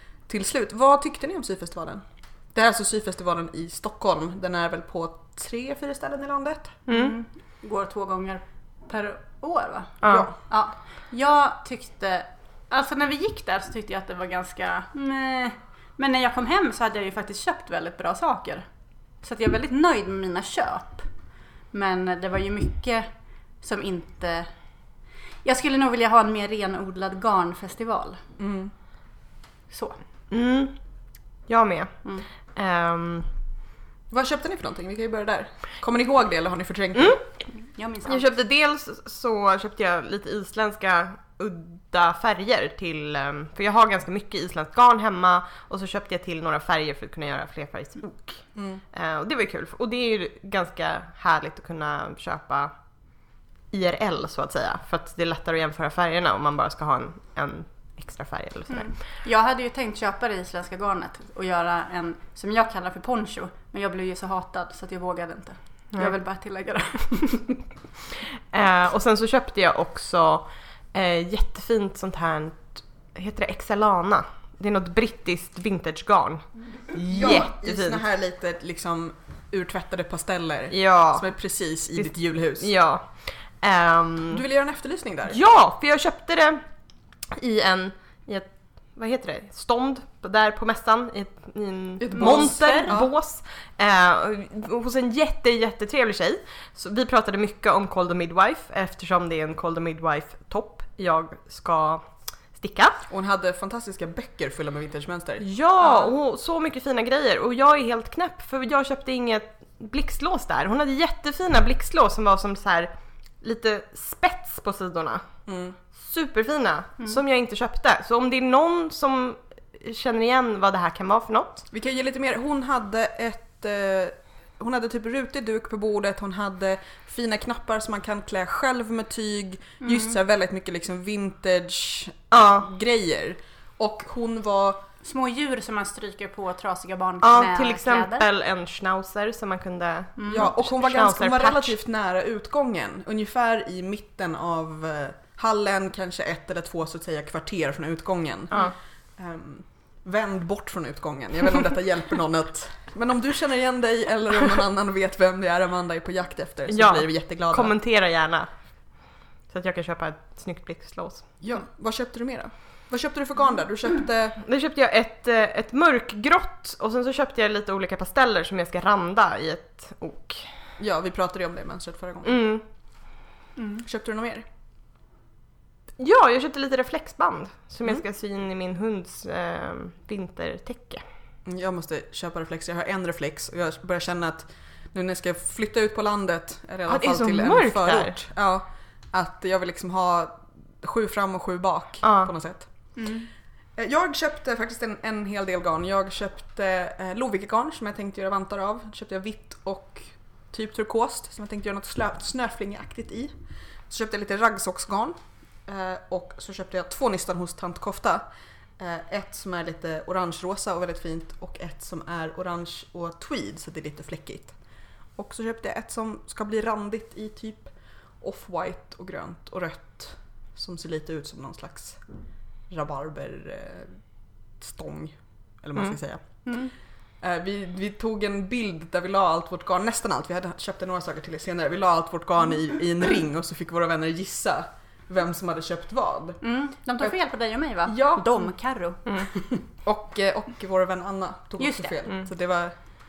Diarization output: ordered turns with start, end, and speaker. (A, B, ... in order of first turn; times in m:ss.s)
0:00.3-0:06.8 A
0:06.9-0:07.2 B
0:06.9-0:18.7 C
0:10.0-0:10.3 B
0:10.1-0:10.4 A
0:19.2-0:21.1 C
0:21.7-0:24.6 C
0:25.4-0:28.2 C
0:28.4-0:28.7 A
0:29.7-0:30.0 C
0:30.3-0:30.8 B
0:31.5-0:33.3 B
0:34.1-0:37.2 A
0:37.0-0:37.2 B
0:37.5-0:38.3 C
0:38.1-0:52.7 B
0:48.6-0:48.8 A
0:53.7-0:59.0 B
0:58.7-1:07.6 C
1:08.5-1:18.0 B
1:17.1-1:22.7 A
1:20.7-1:21.3 B
1:22.0-1:24.4 B
1:24.3-1:25.4 A
1:25.3-1:26.6 B
1:27.4-1:43.0 B
1:32.0-1:33.1 A
1:32.1-1:33.0 C
1:43.1-1:45.4 A
1:45.4-1:55.2 B
1:55.5-1:55.8 A
1:56.0-2:01.6 B
2:01.7-2:14.8 A
2:09.8-2:10.2 C
2:12.3-2:12.7 B
2:15.0-2:18.3 C
2:17.2-2:21.8 B
2:20.2-2:20.5 C
2:20.3-2:28.6 A
2:29.2-2:37.7 A
2:36.7-2:41.3 B
2:41.4-2:44.4 A
2:44.4-2:50.5 B
2:50.8-2:52.5 A
2:52.2-2:52.6 B
2:53.6-2:53.8 C
2:53.8-2:54.4 A
2:56.0-3:01.0 B
3:01.4-3:12.9 A
3:06.9-3:08.2 B
3:12.0-3:12.3 B
3:13.0-3:13.3 C
3:13.8-3:23.3 A
3:23.9-3:28.2 A
3:28.8-3:34.6 A
3:35.2-3:42.1 A
3:42.7-3:46.7 A
3:46.4-3:46.7 C
3:47.2-3:56.4 A
3:56.4-3:59.4 C
3:57.9-3:58.5 A
3:59.8-4:02.8 A
4:01.6-4:02.1 C